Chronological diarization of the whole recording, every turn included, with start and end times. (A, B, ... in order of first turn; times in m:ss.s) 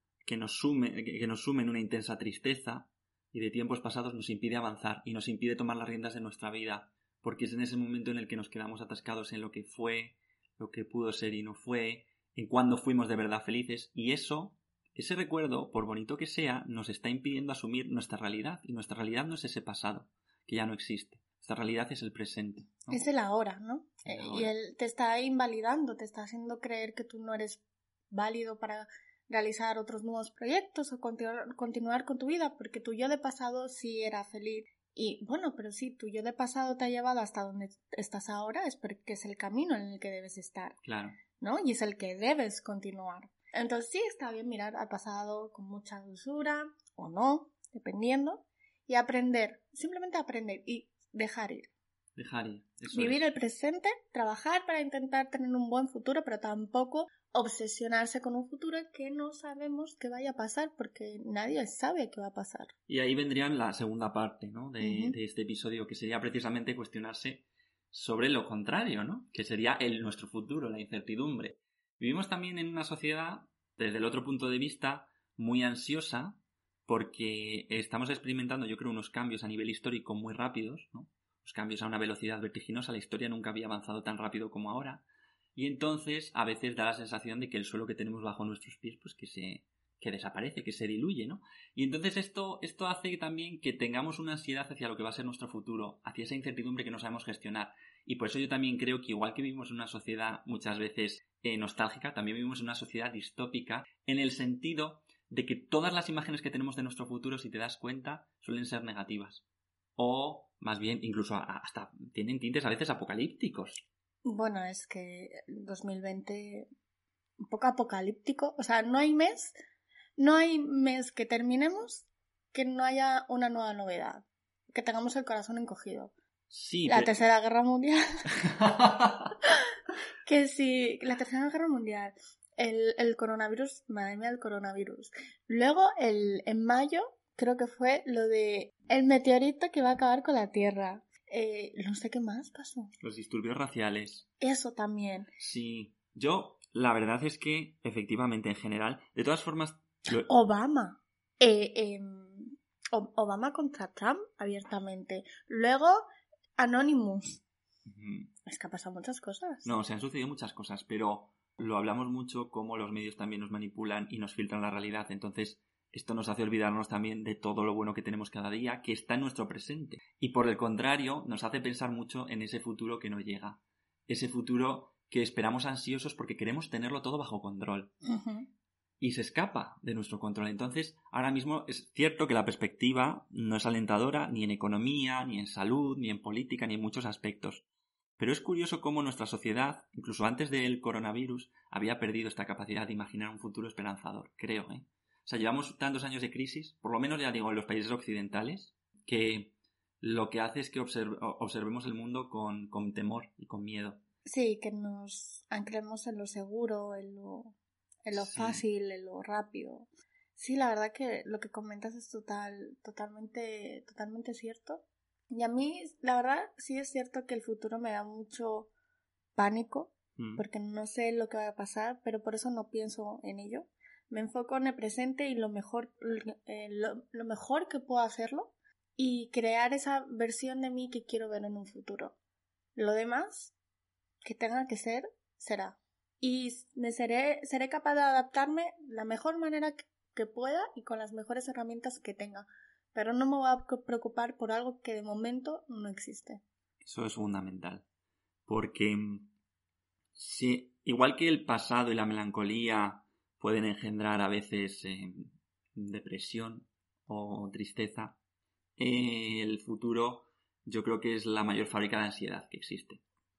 0:00.2-0:23.0 A
0:22.9-0:40.8 B
0:24.0-0:24.5 A
0:40.8-0:41.2 A
0:41.4-0:51.7 B
0:52.2-0:53.3 A
0:52.9-1:02.7 B
1:02.9-1:49.4 A
1:04.8-1:05.2 B
1:50.0-1:53.8 A
1:54.2-1:56.7 B
1:57.4-1:59.5 B
2:00.2-2:06.1 B
2:06.5-2:07.2 A
2:06.9-2:08.0 B
2:08.4-2:09.3 A
2:10.2-2:22.9 B
2:23.0-2:24.3 A
2:24.4-2:25.3 B
2:25.4-2:30.3 A
2:30.3-2:36.0 B
2:36.6-2:37.4 B
2:37.8-2:38.3 A
2:38.4-2:39.7 B
2:39.6-2:57.9 A
2:58.0-2:58.5 B
2:59.0-3:07.6 A
3:08.2-3:24.0 A
3:24.2-3:38.7 B
3:28.1-3:28.6 A
3:39.4-3:52.2 B
3:40.2-3:40.4 A
3:52.8-3:53.5 B
3:54.2-4:06.4 B
4:06.8-4:07.8 A
4:08.5-4:09.3 A
4:10.2-4:18.2 A
4:18.8-4:23.0 A